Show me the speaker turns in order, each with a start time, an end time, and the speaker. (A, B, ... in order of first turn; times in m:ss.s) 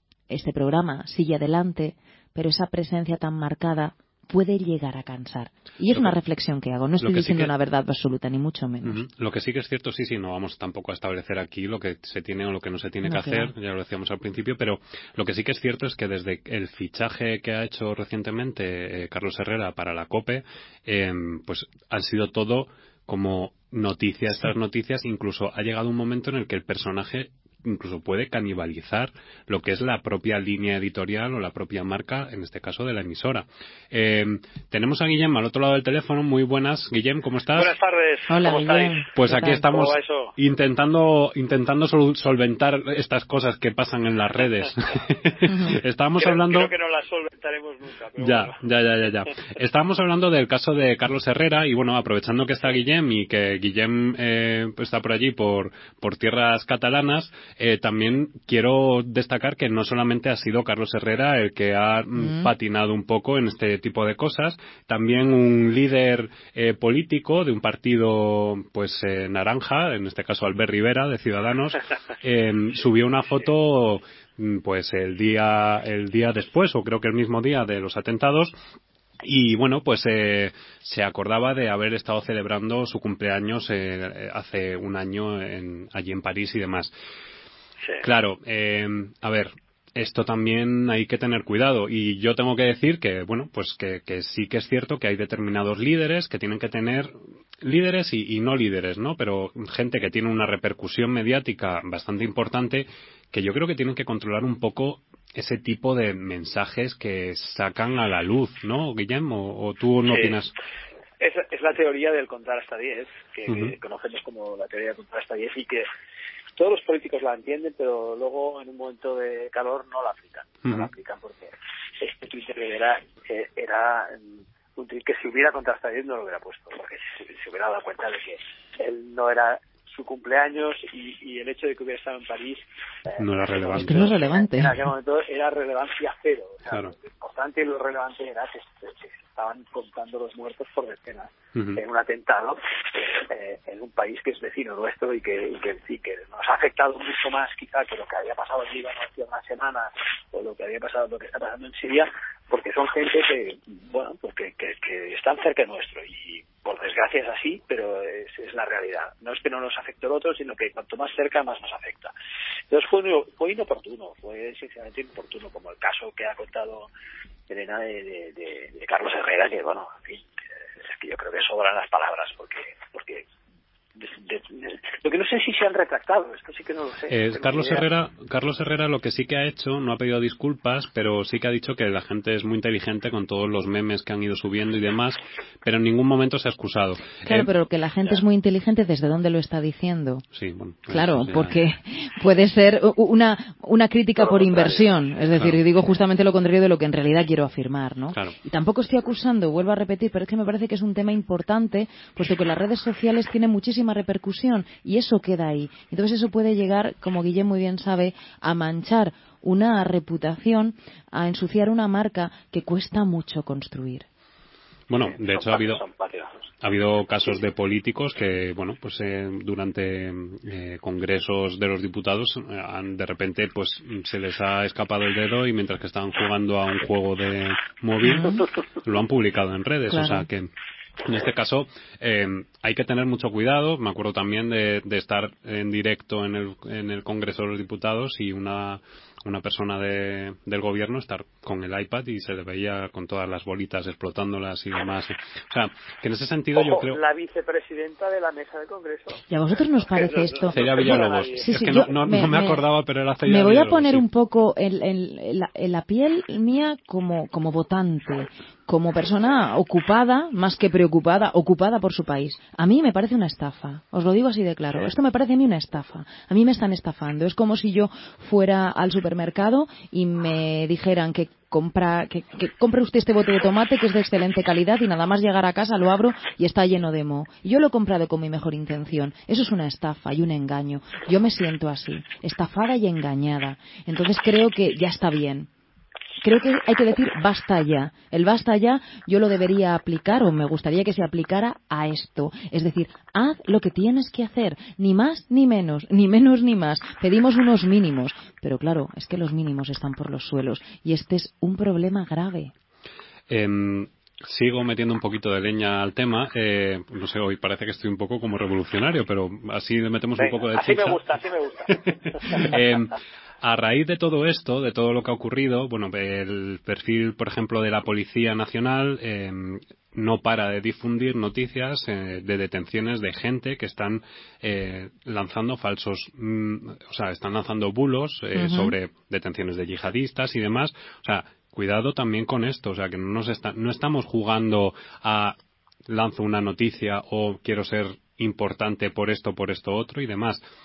0:00.3-0:09.0 A
0:07.0-0:07.5 B
0:08.8-0:37.7 B
0:13.0-0:13.5 A
0:37.5-0:40.3 C
0:38.3-0:39.6 A
0:39.2-0:46.7 B
0:45.5-0:45.7 A
0:46.2-0:48.6 C
0:48.2-1:18.5 B
1:02.2-1:02.5 A
1:19.2-1:26.9 B
1:28.0-1:50.5 B
1:50.1-1:50.5 C
1:51.2-1:55.9 C
1:53.5-1:53.7 B
1:56.6-2:42.1 C
2:00.6-2:00.9 B
2:13.2-2:14.2 B
2:13.8-2:14.8 A
2:16.7-2:16.9 B
2:21.5-2:21.8 B
2:42.7-2:46.9 C
2:47.5-2:53.2 C
2:54.0-2:57.8 C
2:57.1-3:07.5 B
3:07.2-3:10.2 A
3:10.3-3:11.5 B
3:10.9-3:34.0 A
3:14.4-3:14.8 C
3:34.9-3:35.8 B
3:34.9-3:36.5 C
3:36.6-3:50.5 B
3:48.0-3:48.4 A
3:49.9-3:50.2 A
3:51.0-4:07.0 B
4:06.5-4:09.2 C
4:09.3-4:12.6 A
4:09.9-4:11.9 C
4:10.5-4:14.0 B
4:13.2-4:45.5 A
4:46.2-5:02.5 A
5:03.3-5:11.1 B
5:10.2-5:12.5 C
5:11.7-5:40.4 B
5:28.4-5:28.7 A